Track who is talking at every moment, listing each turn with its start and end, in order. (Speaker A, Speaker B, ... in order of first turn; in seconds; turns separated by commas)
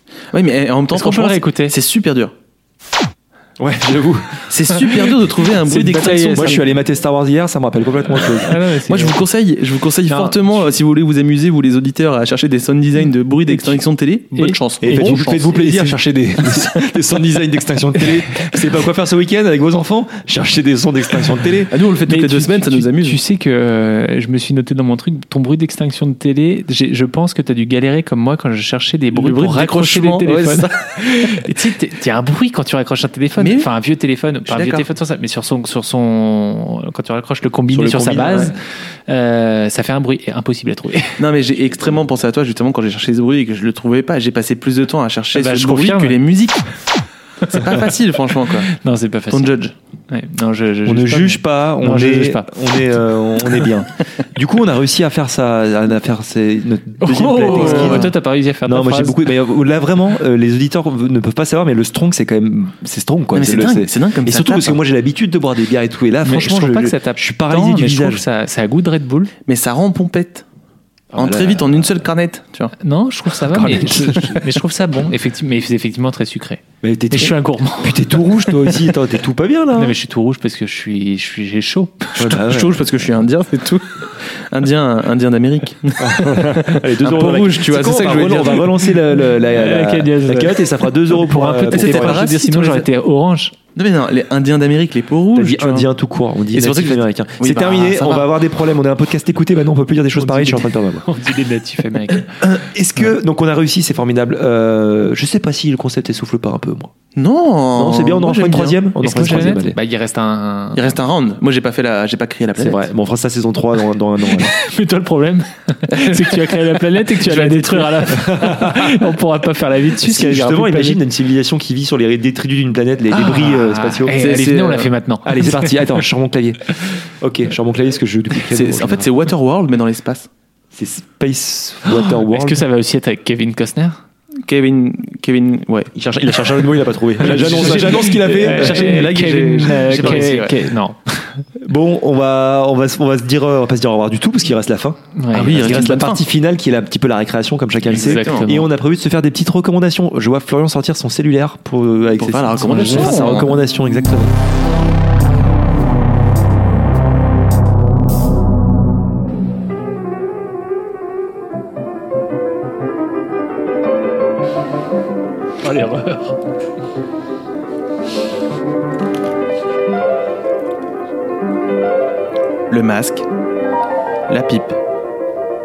Speaker A: 0.3-2.3, Speaker B: 0.9-1.8, Speaker C: 3.6-5.2, Speaker A: 4.5-6.6, Speaker B: 5.6-6.7, Speaker C: 6.3-8.6, Speaker B: 8.2-9.2, Speaker A: 8.9-16.9, Speaker B: 10.1-10.5, Speaker B: 14.3-15.8, Speaker C: 14.8-21.8, Speaker A: 21.7-23.2, Speaker B: 22.1-41.2, Speaker A: 29.1-31.5, Speaker A: 33.4-33.7, Speaker C: 34.5-34.9, Speaker C: 37.7-38.6, Speaker A: 41.2-46.8, Speaker B: 45.4-46.2, Speaker B: 47.5-47.8, Speaker A: 47.5-48.7, Speaker B: 48.7-49.6, Speaker A: 49.3-49.7, Speaker B: 50.1-52.8, Speaker C: 50.9-58.1, Speaker B: 57.0-59.2, Speaker A: 57.1-58.1, Speaker C: 58.6-68.2, Speaker A: 63.3-64.8, Speaker B: 66.2-69.3, Speaker A: 69.5-70.5, Speaker C: 71.1-72.0, Speaker A: 71.2-72.7, Speaker B: 72.8-78.5, Speaker C: 73.4-74.5, Speaker C: 76.8-80.0, Speaker B: 79.8-82.3, Speaker C: 82.2-82.8, Speaker A: 82.2-89.0, Speaker C: 86.0-92.2, Speaker B: 89.3-93.5, Speaker A: 91.6-92.9, Speaker A: 93.8-95.9, Speaker C: 95.3-101.1, Speaker A: 96.5-98.3, Speaker B: 100.2-102.4, Speaker C: 102.3-106.9, Speaker A: 107.2-108.8, Speaker C: 107.7-109.8, Speaker B: 109.0-110.9, Speaker A: 110.7-112.9, Speaker C: 112.6-114.5, Speaker B: 114.3-121.0, Speaker A: 115.9-116.5, Speaker A: 117.2-118.0, Speaker C: 118.1-119.1, Speaker C: 120.0-124.2, Speaker B: 123.1-125.9, Speaker A: 124.1-124.9, Speaker C: 125.2-129.1, Speaker A: 128.5-130.3, Speaker C: 130.7-132.6, Speaker B: 131.9-134.0, Speaker A: 134.4-135.9, Speaker C: 135.9-140.4, Speaker B: 137.2-141.4, Speaker A: 137.2-140.7, Speaker C: 141.6-154.3, Speaker B: 145.2-145.7, Speaker A: 145.3-146.2, Speaker A: 147.9-148.5, Speaker B: 147.9-148.7, Speaker A: 152.2-153.5, Speaker B: 152.6-153.5, Speaker B: 165.6-166.4, Speaker A: 172.7-173.3, Speaker A: 174.3-174.8